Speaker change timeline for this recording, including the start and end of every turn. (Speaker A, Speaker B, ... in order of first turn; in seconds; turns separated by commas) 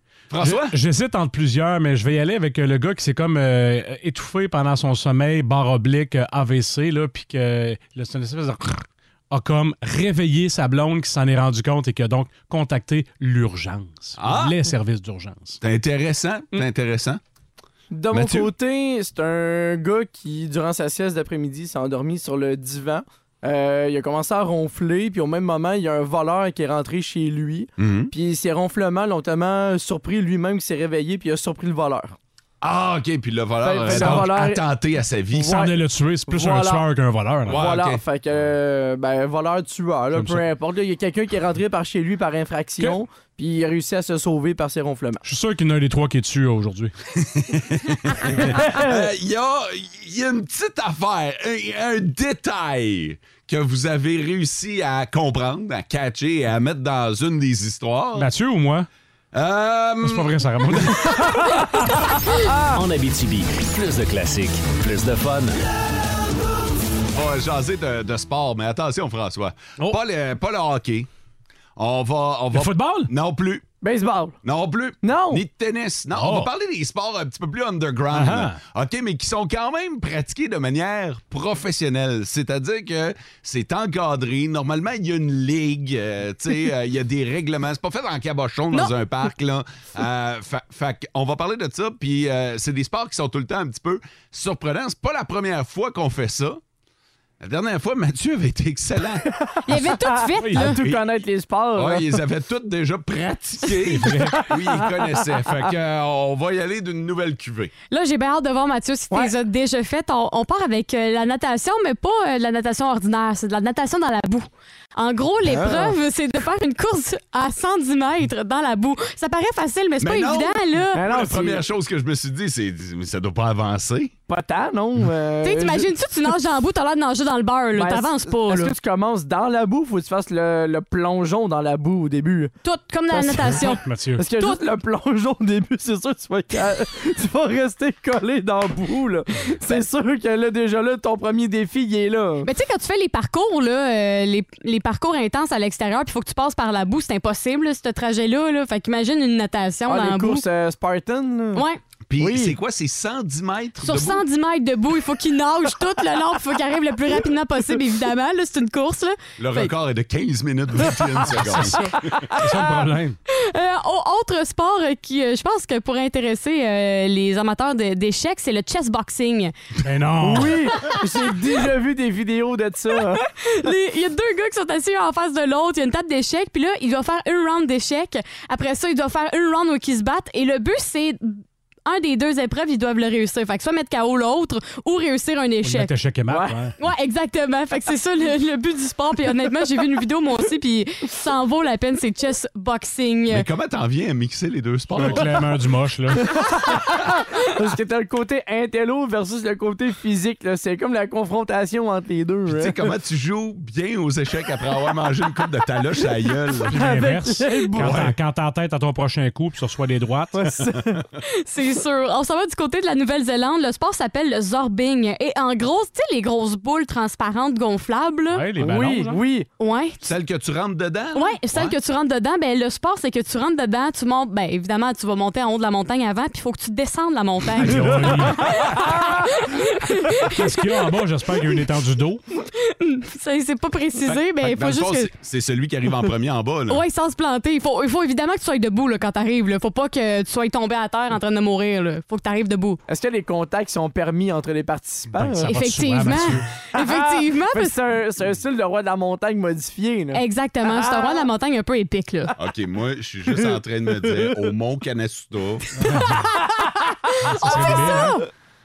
Speaker A: 0.3-0.8, Speaker B: 0.4-15.6, Speaker A: 14.2-14.6, Speaker A: 15.6-17.2, Speaker C: 17.9-32.2, Speaker A: 18.1-18.5, Speaker A: 27.8-28.1, Speaker A: 32.6-35.7, Speaker C: 33.6-34.6, Speaker B: 33.9-34.3, Speaker B: 35.4-37.6, Speaker C: 35.5-35.7, Speaker C: 36.3-36.9, Speaker A: 37.5-38.0, Speaker C: 37.5-45.2, Speaker B: 40.1-40.4, Speaker B: 45.2-46.9, Speaker A: 47.2-58.3, Speaker B: 58.2-58.9, Speaker A: 59.3-61.3, Speaker B: 60.0-62.0, Speaker D: 62.7-65.6, Speaker A: 67.1-71.1, Speaker A: 71.8-73.7, Speaker B: 72.5-73.1, Speaker C: 73.8-74.4, Speaker A: 74.4-96.6, Speaker C: 75.0-75.4, Speaker B: 76.2-76.5, Speaker B: 78.1-78.6, Speaker A: 97.4-99.3, Speaker C: 99.5-102.2, Speaker E: 99.7-100.8, Speaker A: 100.7-101.0, Speaker A: 101.8-107.7, Speaker B: 103.9-104.4, Speaker E: 107.9-121.0, Speaker C: 115.5-116.0, Speaker A: 120.0-124.1, Speaker C: 120.9-121.6, Speaker C: 124.3-125.9, Speaker E: 125.4-128.8, Speaker C: 127.8-132.5, Speaker E: 132.6-133.8, Speaker B: 133.5-134.3, Speaker C: 134.2-142.5, Speaker E: 142.4-150.4, Speaker C: 149.9-151.7, Speaker E: 151.5-151.8, Speaker A: 152.1-154.2, Speaker C: 152.2-152.6, Speaker E: 153.8-159.7, Speaker A: 159.4-161.9, Speaker B: 161.4-161.7, Speaker C: 162.3-162.8, Speaker B: 162.4-163.2, Speaker E: 163.3-169.6, Speaker B: 169.8-170.7, Speaker C: 170.2-173.2, Speaker E: 173.2-185.9, Speaker B: 185.6-186.7, Speaker C: 186.3-186.6, Speaker E: 186.8-193.5, Speaker A: 193.3-195.4, Speaker B: 195.0-196.2, Speaker C: 196.2-202.8, Speaker A: 202.5-206.7, Speaker C: 206.7-208.1, Speaker B: 206.7-210.4, Speaker A: 207.8-208.2, Speaker C: 210.4-211.0, Speaker E: 211.2-218.4, Speaker B: 218.3-219.2, Speaker C: 218.6-219.5, Speaker E: 219.6-220.1, Speaker A: 220.0-221.8, Speaker E: 221.2-230.4, Speaker B: 227.6-228.8, Speaker C: 227.8-228.2, Speaker B: 230.2-232.2, Speaker E: 232.4-235.1, Speaker A: 234.2-236.8, Speaker E: 236.7-242.8, Speaker C: 242.9-245.6, Speaker B: 245.1-246.4, Speaker E: 245.5-247.8, Speaker C: 246.8-251.2, Speaker E: 250.1-252.3, Speaker A: 252.4-255.8, Speaker E: 255.8-256.6, Speaker E: 257.2-258.2, Speaker B: 257.2-258.2